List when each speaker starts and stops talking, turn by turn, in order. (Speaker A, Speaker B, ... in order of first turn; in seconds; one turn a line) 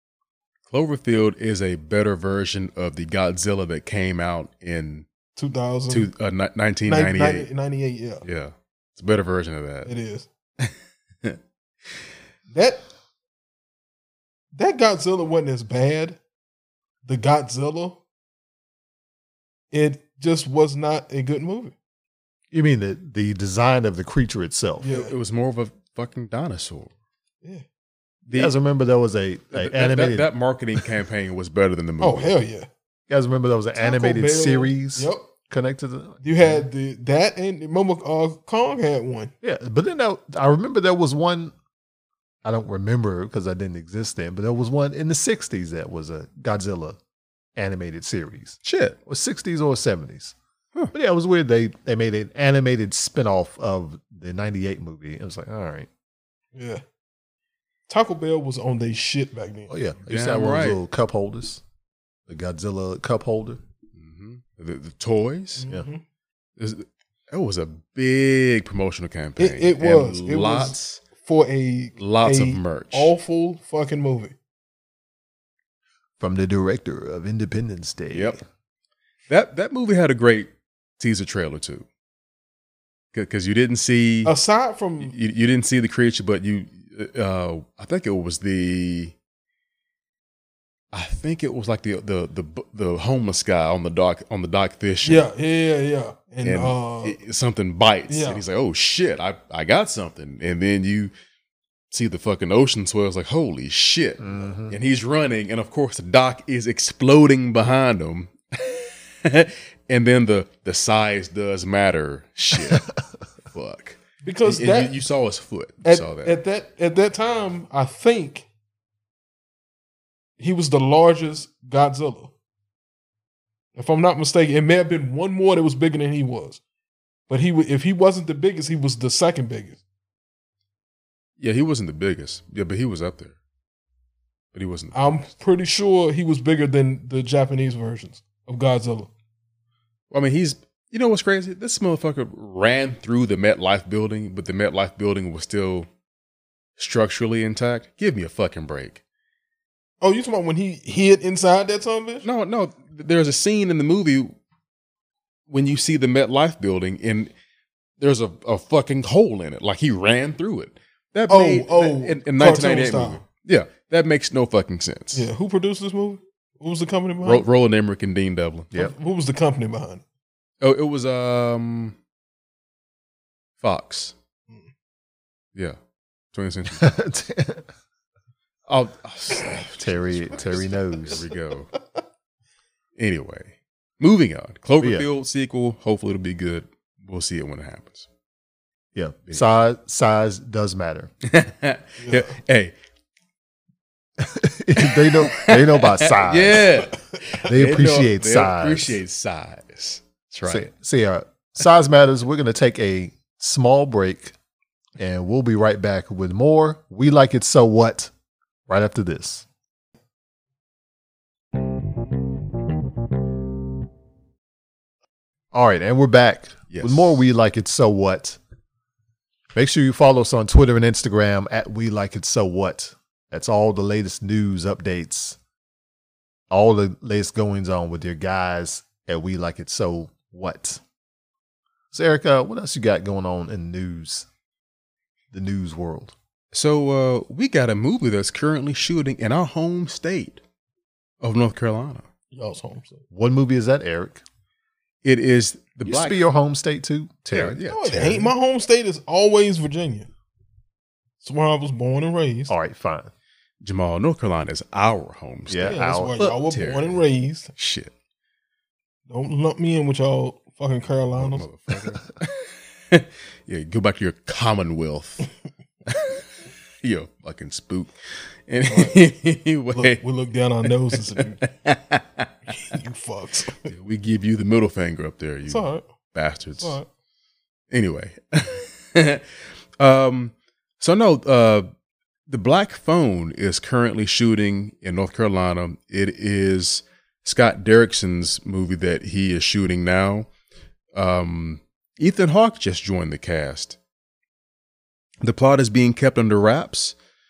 Speaker A: 0.7-5.0
Speaker B: 5.3-6.1
Speaker A: 5.9-7.5
Speaker B: 6.8-8.2
Speaker A: 8.2-9.9
Speaker B: 9.8-10.3
Speaker A: 10.6-11.4
Speaker B: 12.5-12.8
Speaker B: 14.5-16.2
Speaker B: 17.1-18.0
Speaker B: 19.7-21.7
Speaker C: 22.5-24.9
Speaker B: 24.8-25.1
Speaker A: 24.9-26.9
Speaker A: 28.3-28.6
Speaker C: 28.3-30.3
Speaker A: 29.5-32.4
Speaker B: 32.0-32.7
Speaker C: 33.1-36.6
Speaker B: 33.8-35.3
Speaker B: 36.2-39.3
Speaker C: 39.4-41.5
Speaker C: 42.4-47.0
Speaker C: 47.5-50.3
Speaker A: 48.6-49.0
Speaker C: 50.9-55.9
Speaker B: 56.5-56.8
Speaker B: 57.9-59.8
Speaker C: 59.7-61.6
Speaker A: 60.1-60.8
Speaker C: 62.3-63.6
Speaker A: 63.9-65.7
Speaker B: 65.6-66.0
Speaker A: 66.6-71.0
Speaker B: 69.4-74.3
Speaker A: 72.0-73.1
Speaker C: 76.2-78.4
Speaker A: 78.1-78.4
Speaker A: 79.3-81.8
Speaker A: 83.1-84.3
Speaker B: 84.2-85.1
Speaker A: 85.0-89.1
Speaker A: 90.9-95.3
Speaker B: 95.0-97.2
Speaker A: 96.4-101.1
Speaker B: 98.1-98.4
Speaker A: 101.9-112.9
Speaker C: 104.2-104.8
Speaker C: 112.5-112.8
Speaker A: 113.5-116.4
Speaker B: 114.2-114.9
Speaker B: 115.8-118.5
Speaker B: 120.4-122.3
Speaker B: 123.8-126.6
Speaker B: 127.3-129.8
Speaker A: 131.4-133.3
Speaker A: 134.5-134.9
Speaker B: 134.9-139.1
Speaker A: 140.1-145.9
Speaker A: 146.8-149.0
Speaker B: 150.0-152.2
Speaker A: 152.2-154.3
Speaker A: 155.5-157.3
Speaker A: 158.0-165.3
Speaker B: 161.3-163.2
Speaker B: 165.1-167.4
Speaker A: 167.2-168.7
Speaker B: 168.7-170.0
Speaker A: 170.6-171.9
Speaker A: 173.6-174.1
Speaker A: 176.3-177.0
Speaker C: 176.7-177.7
Speaker A: 178.7-181.7
Speaker C: 179.8-181.2
Speaker A: 183.0-188.1
Speaker C: 184.8-185.1
Speaker C: 188.9-191.1
Speaker A: 191.2-192.7
Speaker B: 192.0-192.3
Speaker C: 194.2-196.7
Speaker A: 194.8-200.6
Speaker C: 197.4-199.0
Speaker C: 200.4-204.3
Speaker C: 205.0-208.1
Speaker C: 208.7-209.4
Speaker C: 215.5-218.4
Speaker A: 216.7-217.2
Speaker C: 219.5-225.4
Speaker C: 226.5-230.8
Speaker C: 231.9-234.3
Speaker C: 235.3-236.1
Speaker A: 236.5-240.4
Speaker A: 241.2-242.1
Speaker B: 242.3-243.0
Speaker C: 243.1-244.2
Speaker A: 245.0-246.2
Speaker C: 245.8-247.6
Speaker A: 247.3-248.3
Speaker B: 247.7-250.1
Speaker B: 251.2-252.5
Speaker C: 252.5-253.1
Speaker A: 253.6-257.0
Speaker C: 255.5-256.2
Speaker B: 255.6-257.5
Speaker A: 257.5-257.9
Speaker B: 259.1-261.5
Speaker A: 261.1-265.3
Speaker A: 265.9-266.2
Speaker A: 266.8-267.9
Speaker A: 268.5-270.0
Speaker B: 268.7-269.0
Speaker B: 269.7-271.4
Speaker A: 270.7-272.3
Speaker B: 272.5-273.7
Speaker A: 273.6-276.8
Speaker B: 275.5-275.8
Speaker B: 276.6-276.9
Speaker A: 277.7-279.2
Speaker A: 279.8-281.7
Speaker A: 282.3-290.3
Speaker A: 290.9-293.8
Speaker A: 295.2-296.9